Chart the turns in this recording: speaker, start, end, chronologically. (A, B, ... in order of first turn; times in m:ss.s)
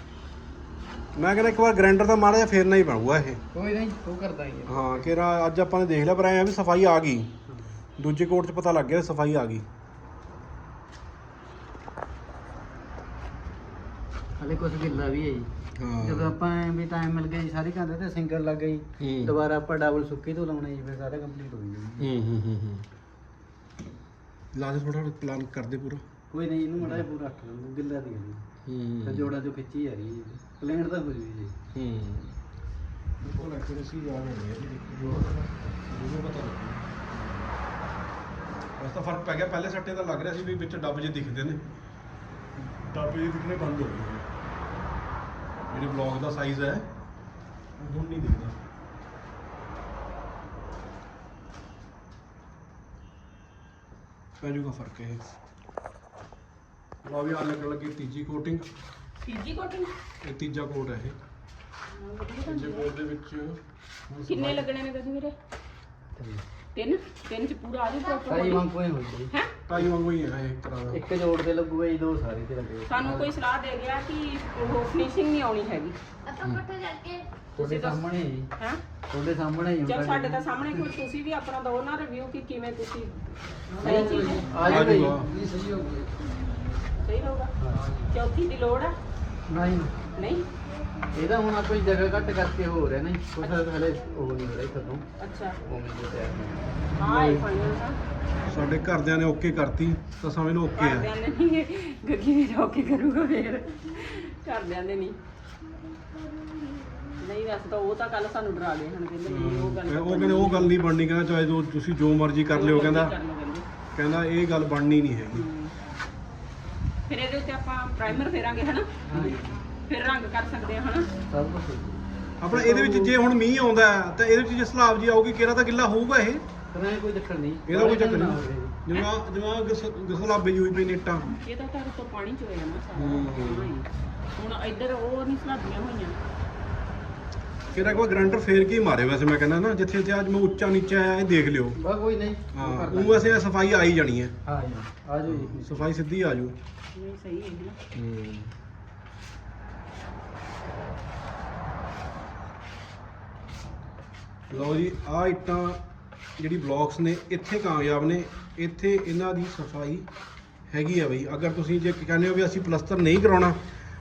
0:01.1-0:03.4 A
0:03.5-0:05.1 B
0:04.7-0:07.3 A
0:07.5-0:07.8 B
0:08.0-0:09.6 A
0:14.4-0:22.1 B
0:15.8-0:16.3 A
0:19.0-0:19.4 A
0:22.0-0:22.9 A
0:24.5-0:26.0 A
0:26.3-0:28.4 B
0:26.8-0:27.1 A
0:28.6-0:29.3 A
0:29.0-0:31.6 B
0:31.7-0:32.4 A
0:33.2-0:37.5 A
0:38.8-0:41.6 A
0:42.8-0:44.3 A
0:45.7-0:46.9 A
0:47.8-0:48.6 A
0:54.4-0:55.2 A
0:57.0-0:58.6 A
0:59.2-0:59.9 C
1:00.2-1:01.2 A
1:01.9-1:02.9 C
1:02.4-1:03.6 A
1:04.1-1:04.6 B
1:04.2-1:05.3 C
1:06.2-1:06.4 B
1:06.7-1:08.6 C
1:08.3-1:09.3 B
1:09.7-1:11.0 A
1:10.9-1:13.3 B
1:12.8-1:16.0 C
1:17.5-1:18.5 B
1:17.6-1:18.0 C
1:19.1-1:20.5 B
1:19.8-1:23.2 C
1:23.7-1:26.2 B
1:23.8-1:24.5 C
1:24.5-1:25.3 A
1:27.0-1:27.5 C
1:27.6-1:28.0 B
1:28.1-1:28.9 C
1:29.5-1:29.9 B
1:30.2-1:30.4 C
1:31.1-1:35.0 B
1:33.4-1:33.7 C
1:35.2-1:35.6 C
1:35.6-1:36.7 B
1:37.0-1:38.0 C
1:37.0-1:37.5 A
1:38.5-1:41.1 A
1:40.8-1:45.2 C
1:47.2-1:50.7 C
1:49.2-1:53.1 A
1:52.5-1:53.6 C
1:53.9-1:55.4 A
1:55.3-1:55.7 C
1:57.1-1:59.3 C
1:59.0-1:59.6 B
1:59.8-2:01.1 C
2:01.3-2:03.2 B
2:02.4-2:06.4 A
2:06.7-2:08.8 B
2:07.7-2:11.3 A
2:11.4-2:16.2 C
2:12.9-2:13.7 A
2:17.7-2:21.8 A
2:18.0-2:18.3 B
2:21.8-2:23.4 B
2:22.5-2:24.3 A
2:24.4-2:25.8 B
2:25.2-2:26.5 A
2:26.9-2:27.8 C
2:27.9-2:28.5 A
2:34.5-2:35.8 A
2:36.4-2:40.1 A
2:40.7-2:43.6 A